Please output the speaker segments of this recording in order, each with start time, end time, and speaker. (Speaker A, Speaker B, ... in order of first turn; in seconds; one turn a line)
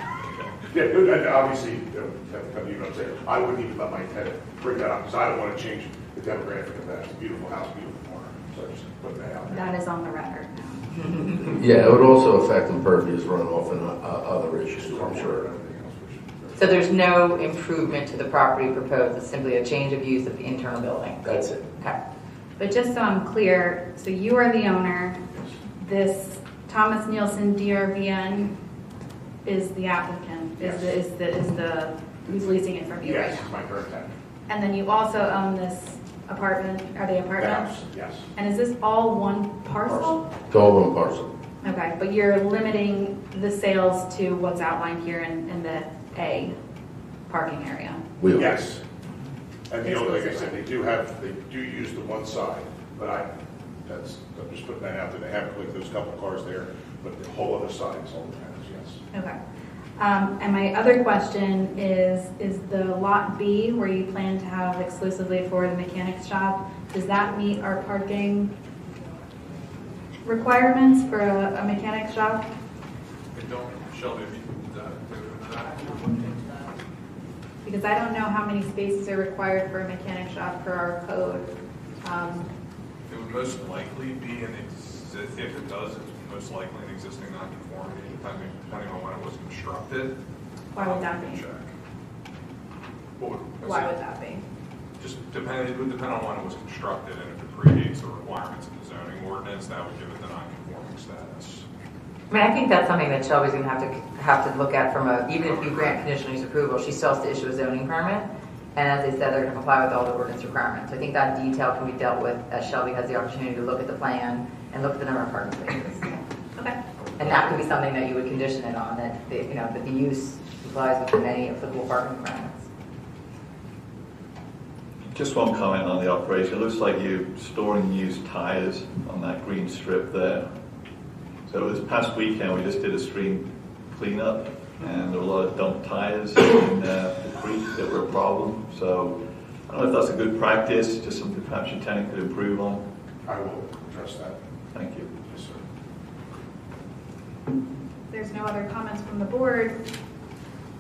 Speaker A: 0.7-9.7
Speaker B: 9.5-10.9
Speaker C: 11.4-15.4
Speaker A: 14.7-16.8
Speaker D: 16.6-21.2
Speaker C: 21.2-21.7
Speaker B: 22.6-25.2
Speaker B: 25.7-28.5
Speaker B: 29.4-33.5
Speaker A: 30.6-31.0
Speaker A: 33.0-34.1
Speaker B: 34.5-37.8
Speaker A: 37.4-38.2
Speaker B: 38.4-40.2
Speaker A: 39.9-40.2
Speaker C: 40.5-41.3
Speaker B: 41.6-46.6
Speaker B: 47.3-48.0
Speaker C: 48.2-48.5
Speaker A: 48.3-48.8
Speaker A: 49.7-53.3
Speaker B: 49.8-50.5
Speaker A: 53.9-59.0
Speaker B: 59.1-59.4
Speaker B: 60.0-68.5
Speaker B: 70.2-72.5
Speaker E: 73.3-76.3
Speaker B: 77.6-81.5
Speaker B: 82.0-82.5
Speaker E: 83.1-90.2
Speaker B: 90.7-91.4
Speaker E: 90.7-91.7
Speaker E: 93.2-93.9
Speaker B: 93.6-94.4
Speaker E: 95.0-101.7
Speaker D: 102.3-116.2
Speaker E: 105.6-105.9
Speaker D: 117.2-122.7
Speaker F: 125.1-130.5
Speaker F: 131.5-142.8
Speaker A: 143.2-144.4
Speaker F: 144.7-145.1
Speaker A: 145.2-145.6
Speaker B: 148.1-149.8